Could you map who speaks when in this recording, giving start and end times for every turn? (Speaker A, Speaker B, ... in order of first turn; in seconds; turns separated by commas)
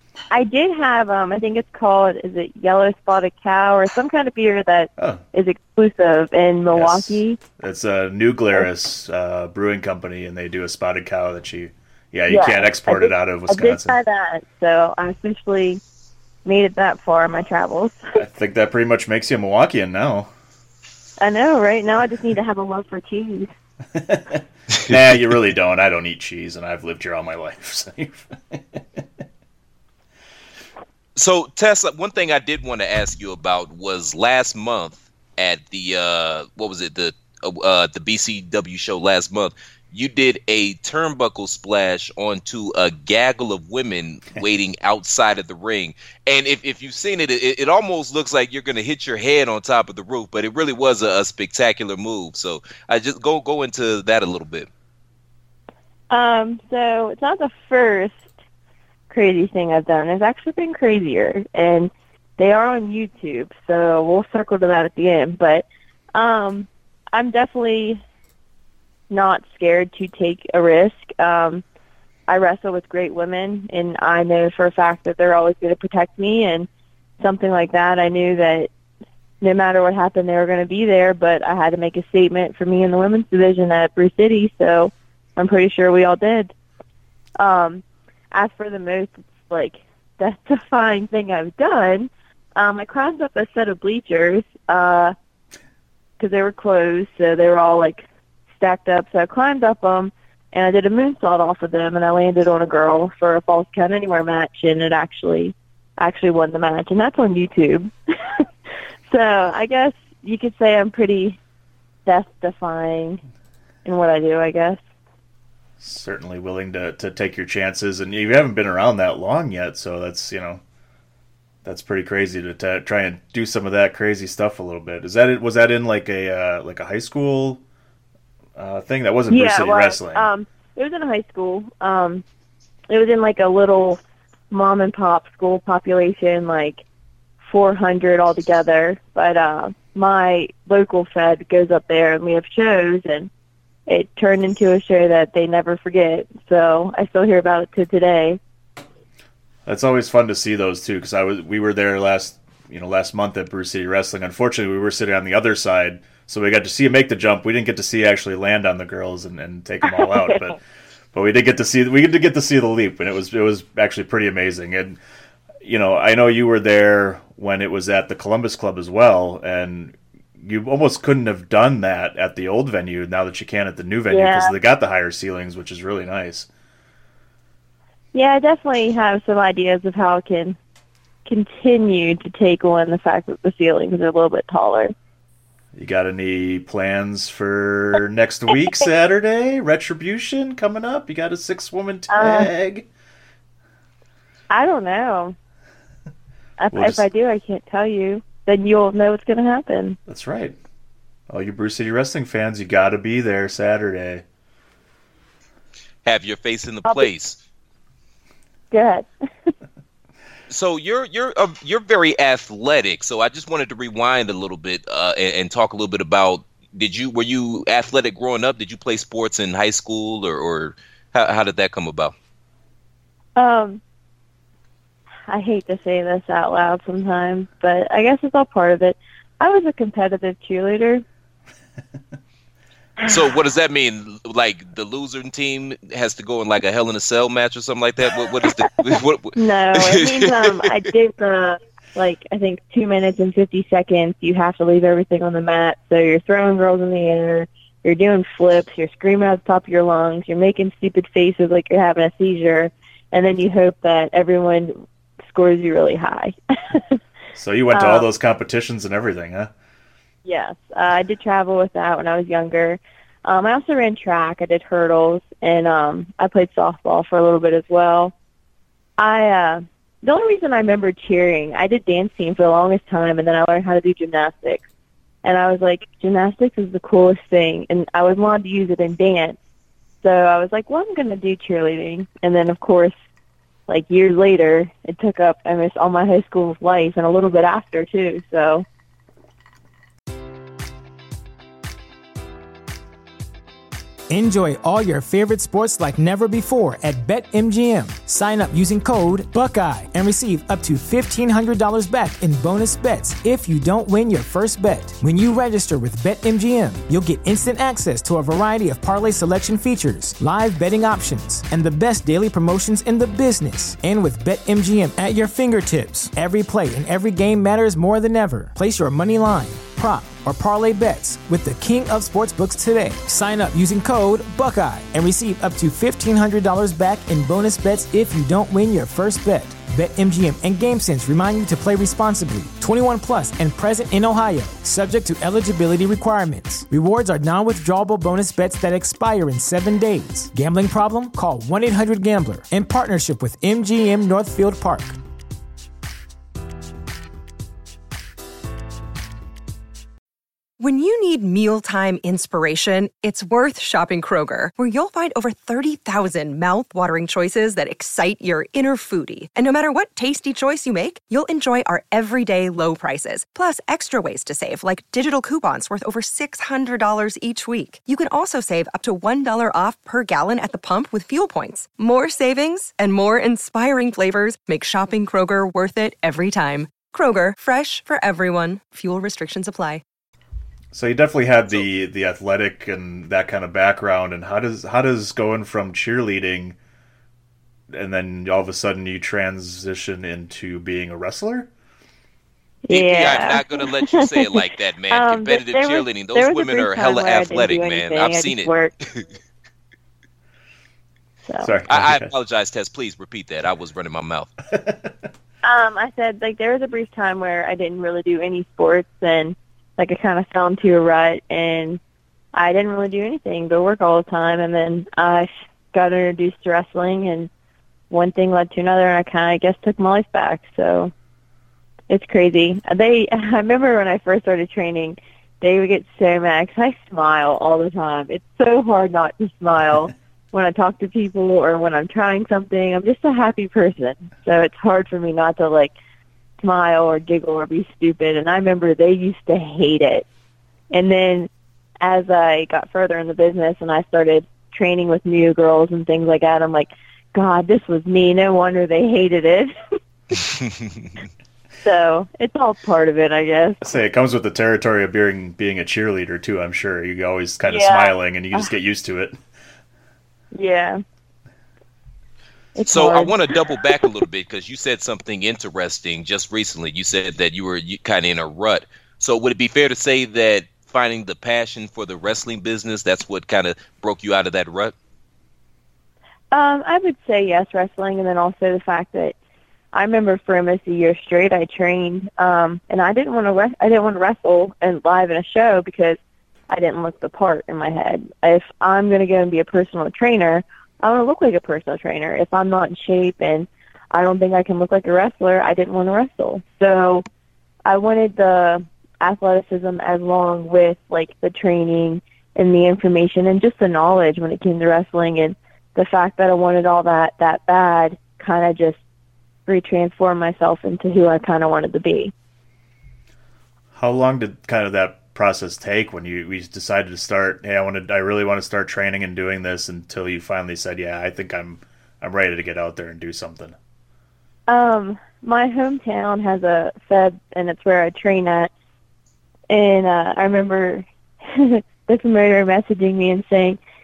Speaker A: 0.3-7.4, Speaker B: 5.0-5.2, Speaker B: 6.7-14.0, Speaker A: 12.3-15.8, Speaker A: 16.4-18.0, Speaker B: 18.1-20.3, Speaker A: 21.2-23.5, Speaker B: 23.9-28.8, Speaker C: 31.1-54.7, Speaker A: 56.1-58.2, Speaker A: 59.1-68.0, Speaker A: 69.1-71.6, Speaker A: 72.3-76.7, Speaker A: 77.2-78.7, Speaker A: 79.4-86.5, Speaker A: 87.4-95.1, Speaker A: 96.2-98.0, Speaker A: 98.5-108.4, Speaker A: 109.1-111.4, Speaker A: 112.0-113.2, Speaker A: 113.8-114.8, Speaker B: 115.8-120.6, Speaker B: 121.6-127.6, Speaker B: 128.6-130.3, Speaker A: 129.3-132.2, Speaker A: 132.9-134.0, Speaker A: 134.5-136.8, Speaker A: 137.4-143.3, Speaker A: 143.9-148.4, Speaker B: 149.7-160.6, Speaker A: 159.9-160.4, Speaker B: 161.1-165.0, Speaker B: 165.6-176.5, Speaker A: 174.1-174.5, Speaker A: 178.1-180.6, Speaker A: 181.2-184.9, Speaker B: 185.7-192.8, Speaker A: 192.1-192.5, Speaker A: 194.5-195.3, Speaker A: 196.6-200.0, Speaker B: 196.7-197.0, Speaker B: 200.1-200.6, Speaker B: 201.3-204.2, Speaker C: 206.0-207.4, Speaker A: 208.7-209.5, Speaker C: 210.5-222.1, Speaker A: 223.3-223.8, Speaker A: 225.3-231.0, Speaker C: 233.1-240.7, Speaker A: 239.4-257.0, Speaker B: 257.3-259.5, Speaker A: 257.7-258.0, Speaker A: 260.2-268.1, Speaker A: 269.0-274.6, Speaker A: 275.2-279.4, Speaker A: 280.0-282.9, Speaker A: 283.7-288.6, Speaker D: 294.1-344.9, Speaker E: 350.6-379.8, Speaker B: 380.7-386.6, Speaker B: 387.7-391.5, Speaker A: 392.6-394.3, Speaker C: 392.7-399.1, Speaker A: 394.9-398.7, Speaker B: 401.4-402.1, Speaker C: 401.7-404.3, Speaker B: 404.5-404.9, Speaker A: 405.4-411.8, Speaker A: 412.3-417.3, Speaker A: 417.9-420.9, Speaker A: 421.9-435.7, Speaker A: 436.4-440.1, Speaker A: 440.7-441.3, Speaker A: 441.8-449.5, Speaker C: 450.2-450.9, Speaker A: 451.6-453.6, Speaker B: 453.6-459.1, Speaker A: 457.5-458.5, Speaker A: 460.3-460.8, Speaker A: 462.6-463.1, Speaker C: 462.7-474.7, Speaker A: 476.3-479.1, Speaker A: 479.7-486.0, Speaker A: 486.5-497.1, Speaker A: 497.6-508.8, Speaker A: 509.5-512.1, Speaker B: 513.7-523.6, Speaker A: 524.5-528.5, Speaker A: 529.5-533.6